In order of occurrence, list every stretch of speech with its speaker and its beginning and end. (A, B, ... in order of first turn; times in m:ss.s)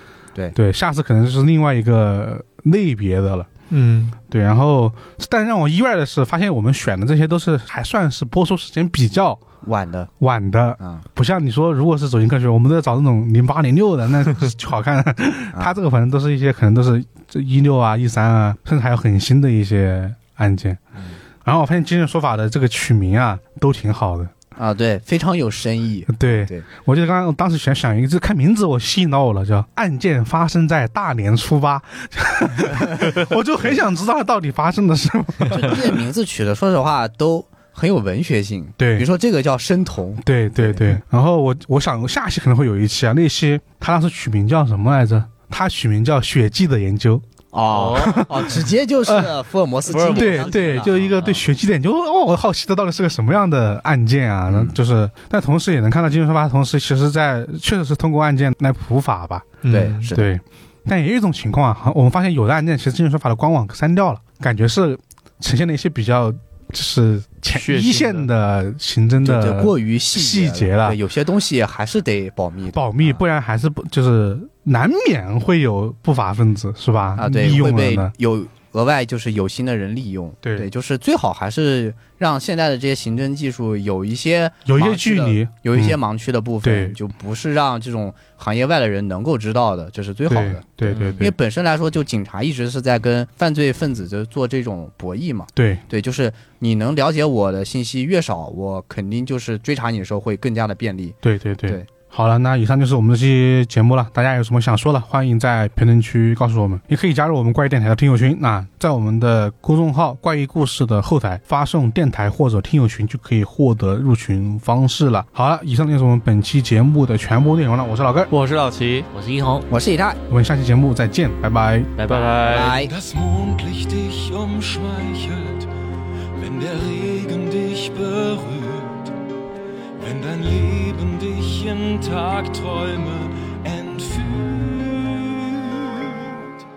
0:00.5-0:03.5 A
0:03.7-0:04.2 B
0:04.3-0:09.4 A
0:09.6-0:10.1 C
0:10.2-0:20.8 A
0:21.4-0:24.3 A
0:24.6-0:26.6 C
0:26.1-0:36.0 A
0:35.5-0:40.9 C
0:38.8-0:39.1 A
0:40.2-0:47.2 A
0:47.5-0:51.0 C
0:47.7-0:48.2 B
0:49.0-0:49.4 A
0:49.9-0:51.4 D
0:50.1-0:59.5 A
0:54.5-0:54.8 C
0:59.6-1:00.1 B
0:59.7-1:00.3 C
1:00.1-1:11.0 A
1:07.5-1:08.3 B
1:09.2-1:13.2 C
1:12.7-1:18.1 A
1:17.2-1:41.9 C
1:20.4-1:20.7 A
1:24.7-1:26.0 A
1:26.6-1:27.0 A
1:30.3-1:31.3 A
1:30.9-1:31.3 D
1:35.6-1:35.8 A
1:41.2-1:58.3 A
1:58.3-1:59.1 B
1:59.1-1:59.7 D
1:59.7-2:00.2 C
2:00.3-2:01.9 A
2:02.0-2:02.5 D
2:02.1-2:02.8 B
2:02.5-2:02.9 C
2:02.6-2:05.7 E
2:06.3-2:09.1 E
2:10.0-2:16.1 E